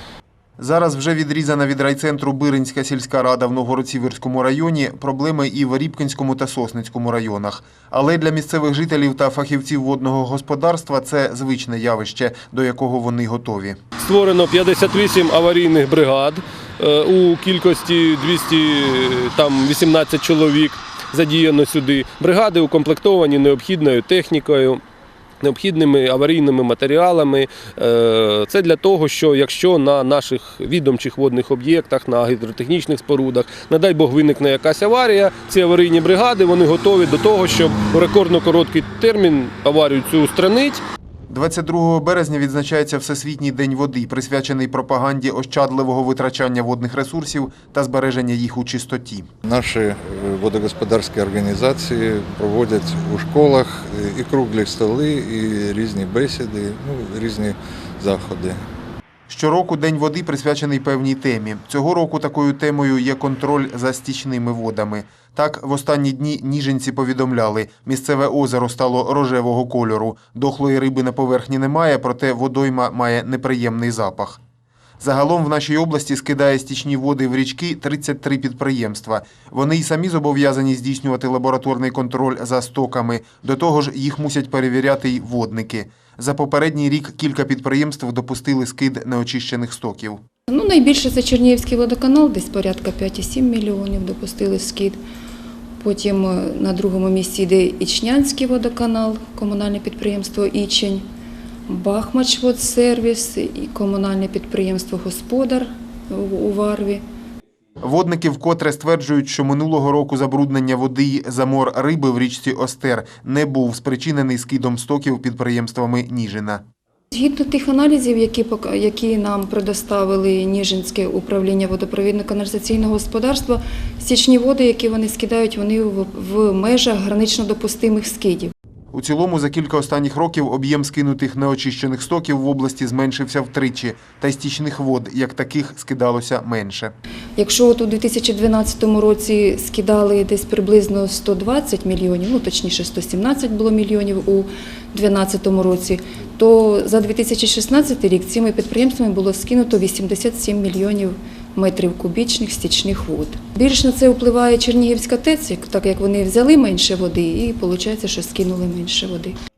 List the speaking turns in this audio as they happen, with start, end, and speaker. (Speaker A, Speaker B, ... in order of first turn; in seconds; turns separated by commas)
Speaker A: 0.6-13.8, Speaker B: 14.0-24.8, Speaker B: 25.4-40.8, Speaker A: 41.3-49.3, Speaker C: 49.5-58.6, Speaker A: 59.3-74.4, Speaker A: 75.0-90.2, Speaker D: 90.5-95.0, Speaker D: 95.8-101.0, Speaker D: 101.7-107.0, Speaker A: 107.8-116.6, Speaker D: 117.1-128.5, Speaker A: 128.9-136.9, Speaker D: 137.4-159.4